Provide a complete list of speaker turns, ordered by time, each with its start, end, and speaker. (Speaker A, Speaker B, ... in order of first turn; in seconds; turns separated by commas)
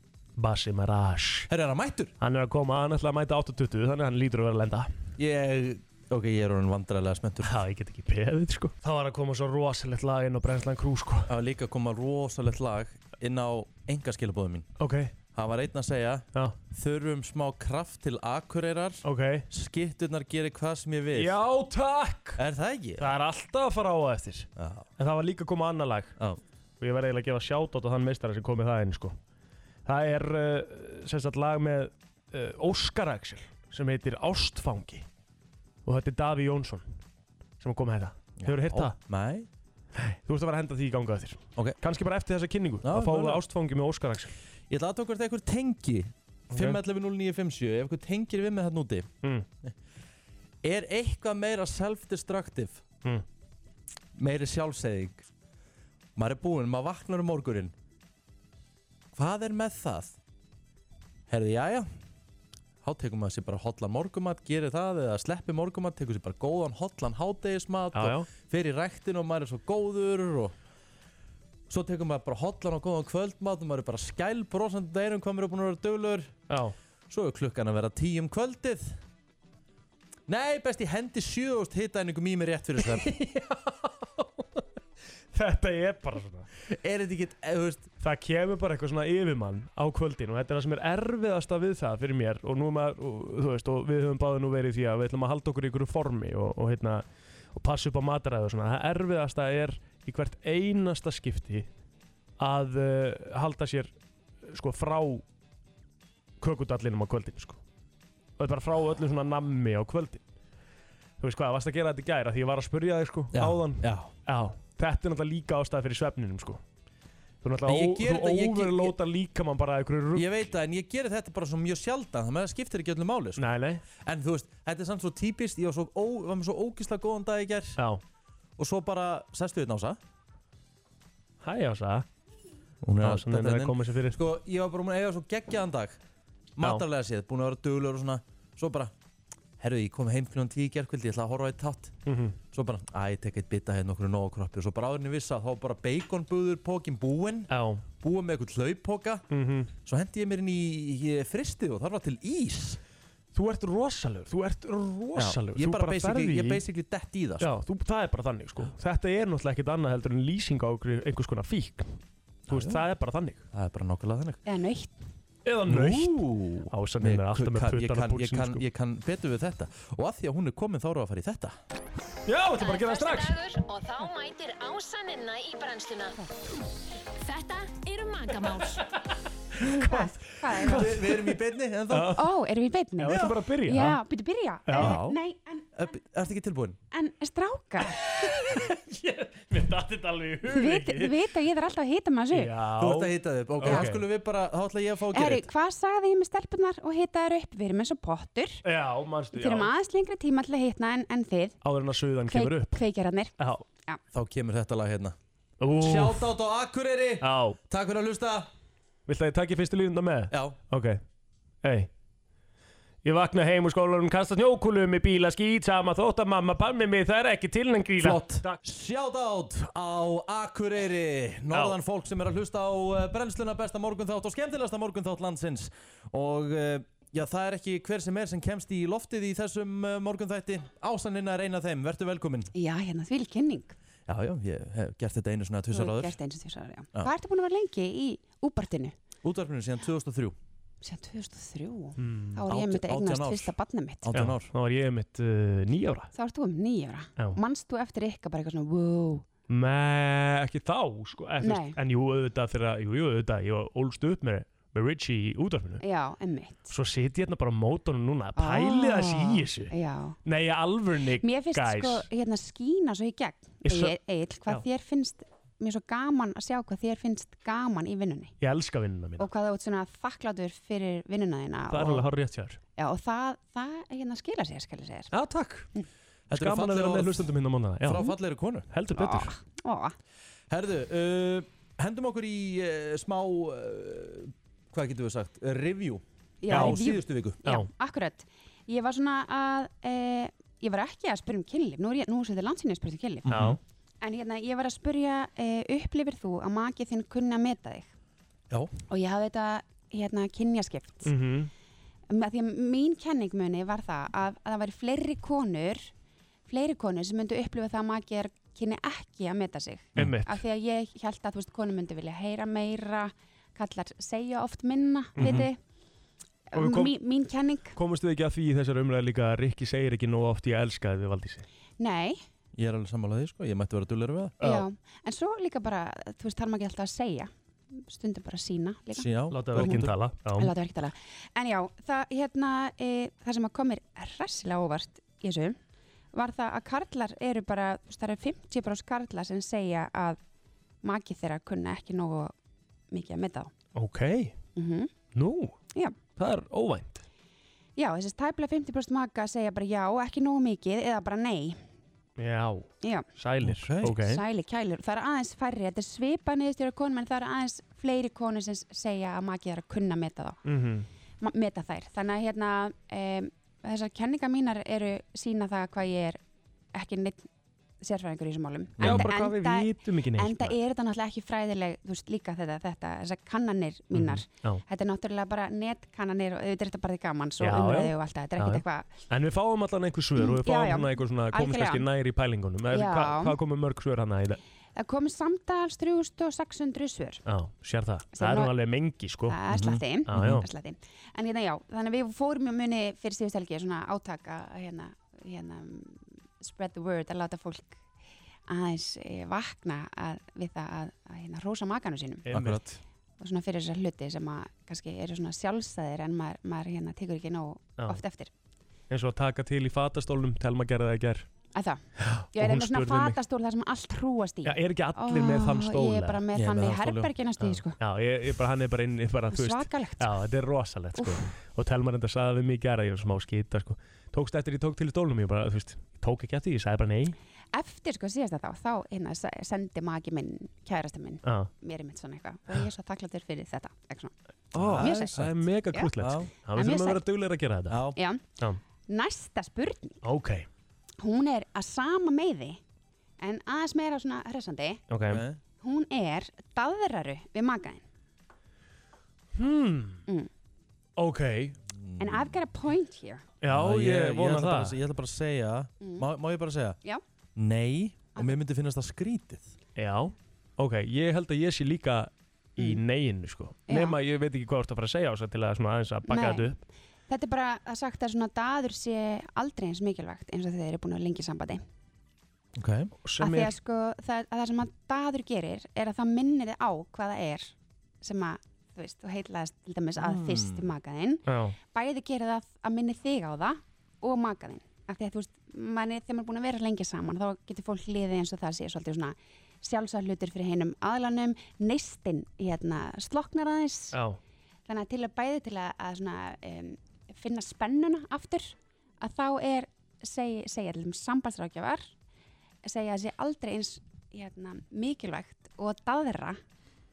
Speaker A: 0.4-1.5, Speaker B: 1.5-2.1, Speaker A: 2.2-4.9, Speaker B: 5.2-7.6, Speaker A: 7.4-11.3, Speaker B: 11.3-14.7, Speaker A: 14.8-15.1, Speaker B: 15.3-21.4, Speaker A: 19.0-19.5, Speaker A: 21.1-22.4, Speaker B: 22.4-23.1, Speaker A: 23.0-26.1, Speaker B: 24.6-24.9, Speaker A: 26.8-29.1, Speaker A: 29.9-35.1, Speaker A: 35.8-36.9, Speaker A: 37.6-39.0, Speaker B: 38.4-39.5, Speaker A: 39.9-44.3, Speaker B: 42.8-43.4, Speaker B: 44.7-49.1, Speaker A: 46.5-46.8, Speaker B: 50.6-52.8, Speaker B: 54.1-55.3, Speaker B: 56.1-57.7, Speaker B: 59.1-60.2, Speaker B: 61.3-61.9, Speaker B: 62.8-70.5, Speaker A: 67.9-68.3, Speaker B: 71.7-76.3, Speaker A: 76.5-76.8, Speaker B: 77.1-79.0, Speaker B: 80.3-83.1, Speaker A: 82.8-84.7, Speaker A: 85.3-86.5, Speaker B: 86.7-87.9, Speaker A: 88.0-101.7, Speaker A: 102.4-103.9, Speaker A: 104.4-105.2, Speaker A: 106.4-107.6, Speaker A: 108.4-110.2, Speaker A: 111.2-116.6, Speaker B: 113.3-114.1, Speaker A: 117.4-120.5, Speaker B: 117.6-118.9, Speaker B: 120.1-123.4, Speaker A: 123.4-123.8, Speaker B: 124.0-127.8, Speaker B: 128.6-130.0, Speaker A: 131.4-132.1, Speaker B: 132.8-136.0, Speaker A: 133.0-134.2, Speaker B: 136.6-138.9, Speaker B: 139.6-141.9, Speaker A: 142.1-142.4, Speaker B: 142.5-147.5, Speaker A: 147.5-147.8, Speaker B: 148.0-149.2, Speaker A: 149.3-149.7, Speaker B: 149.8-152.8, Speaker A: 153.3-156.6, Speaker B: 155.1-157.5, Speaker A: 157.4-163.4, Speaker B: 162.5-162.8, Speaker B: 163.5-164.4, Speaker C: 164.4-164.9, Speaker A: 165.4-168.6, Speaker B: 165.7-171.6, Speaker A: 172.2-173.4, Speaker D: 172.6-176.2, Speaker D: 177.2-178.8, Speaker A: 179.6-181.3, Speaker C: 179.8-181.0, Speaker B: 180.7-182.2, Speaker A: 181.9-182.3, Speaker C: 182.1-186.0, Speaker A: 183.0-184.0, Speaker A: 184.7-185.0, Speaker B: 184.8-185.2, Speaker B: 185.8-186.8, Speaker C: 186.9-188.0, Speaker A: 187.8-191.2, Speaker C: 190.4-192.6, Speaker A: 192.3-194.1, Speaker B: 192.8-195.4, Speaker C: 193.6-193.9, Speaker C: 195.1-198.6, Speaker A: 198.6-199.7, Speaker C: 199.3-201.6, Speaker A: 201.6-202.8, Speaker C: 202.3-203.3, Speaker A: 203.4-203.6, Speaker B: 204.1-205.2, Speaker A: 205.6-206.3, Speaker B: 205.8-208.5, Speaker A: 207.2-207.6, Speaker A: 209.1-211.0, Speaker B: 210.3-210.6, Speaker A: 211.6-211.9, Speaker A: 213.0-218.6, Speaker B: 218.0-232.5, Speaker C: 232.5-233.8, Speaker B: 234.1-236.2, Speaker C: 235.7-238.9, Speaker B: 239.2-240.3, Speaker C: 240.8-244.2, Speaker A: 242.0-242.4, Speaker B: 242.5-244.5, Speaker A: 244.1-246.1, Speaker C: 246.1-249.2, Speaker A: 249.5-255.8, Speaker C: 251.4-251.8, Speaker C: 255.8-256.7, Speaker A: 256.7-259.7, Speaker C: 258.3-260.2, Speaker A: 260.2-262.1, Speaker C: 261.2-268.3, Speaker A: 263.6-264.6, Speaker A: 268.4-269.3, Speaker C: 269.2-272.1, Speaker A: 271.7-272.6, Speaker C: 272.8-275.1, Speaker A: 275.1-275.7, Speaker B: 276.3-277.3, Speaker A: 276.3-278.1, Speaker B: 277.8-278.7, Speaker A: 278.7-279.4, Speaker C: 278.9-279.9, Speaker B: 280.5-287.4, Speaker C: 286.4-293.4, Speaker A: 286.5-286.8, Speaker A: 287.4-287.7, Speaker B: 293.3-293.6, Speaker A: 293.3-293.6, Speaker C: 294.0-297.9, Speaker C: 298.9-301.1, Speaker A: 301.0-301.5, Speaker C: 302.1-305.9, Speaker C: 306.5-315.6, Speaker A: 309.9-310.4, Speaker A: 315.1-315.5, Speaker B: 315.2-315.4, Speaker C: 316.5-317.8, Speaker A: 316.5-316.9, Speaker A: 317.7-321.4, Speaker C: 321.8-322.2, Speaker B: 322.5-324.4, Speaker C: 324.4-335.6, Speaker A: 324.4-324.6, Speaker B: 328.9-329.9, Speaker A: 329.3-330.5, Speaker C: 336.1-340.2, Speaker C: 340.8-342.3, Speaker C: 342.9-343.5, Speaker A: 343.7-344.4, Speaker C: 344.6-344.9, Speaker A: 345.1-345.6, Speaker A: 346.1-347.0, Speaker C: 347.8-351.6, Speaker A: 352.2-354.2, Speaker C: 352.8-353.1, Speaker B: 353.4-353.9, Speaker C: 353.9-360.4, Speaker A: 360.4-360.9, Speaker C: 361.2-366.2, Speaker C: 366.7-367.3, Speaker C: 367.8-379.0, Speaker B: 368.8-369.1, Speaker A: 368.8-370.6, Speaker A: 373.9-374.6, Speaker A: 377.4-384.4, Speaker C: 380.1-381.9, Speaker C: 382.7-383.4, Speaker C: 384.7-387.2, Speaker A: 387.2-389.4, Speaker C: 388.1-388.6, Speaker C: 389.2-397.8, Speaker B: 389.5-390.4, Speaker A: 390.1-390.4, Speaker C: 398.5-402.3, Speaker A: 402.2-402.8, Speaker B: 402.3-402.6, Speaker C: 403.2-408.3, Speaker A: 408.9-411.3, Speaker C: 411.5-417.8, Speaker A: 412.0-413.2, Speaker A: 414.4-416.2, Speaker B: 416.3-417.1, Speaker A: 417.4-427.1, Speaker C: 419.3-420.2, Speaker C: 420.9-421.3, Speaker C: 427.5-434.1, Speaker A: 431.2-431.5, Speaker A: 434.5-437.9, Speaker B: 434.5-435.4, Speaker C: 434.8-435.9, Speaker B: 436.0-436.3, Speaker C: 436.4-437.0, Speaker B: 437.7-438.0, Speaker C: 437.9-438.4, Speaker C: 438.9-440.0, Speaker A: 440.0-440.5, Speaker C: 441.0-442.6, Speaker C: 443.2-444.8, Speaker A: 444.9-445.2, Speaker B: 445.1-445.4, Speaker C: 445.6-447.8, Speaker A: 449.4-450.0, Speaker A: 451.0-451.6, Speaker B: 451.7-452.4, Speaker C: 452.0-453.3, Speaker A: 453.4-454.8, Speaker B: 453.5-456.8, Speaker C: 455.8-456.1, Speaker B: 457.4-459.5, Speaker A: 459.8-466.6, Speaker C: 463.7-464.0, Speaker C: 466.1-466.6, Speaker C: 467.1-471.6, Speaker B: 472.6-472.9, Speaker A: 473.0-473.5, Speaker C: 473.2-494.0, Speaker B: 480.0-480.7, Speaker A: 481.2-481.6, Speaker A: 493.9-494.2, Speaker C: 494.7-501.9, Speaker C: 502.6-506.4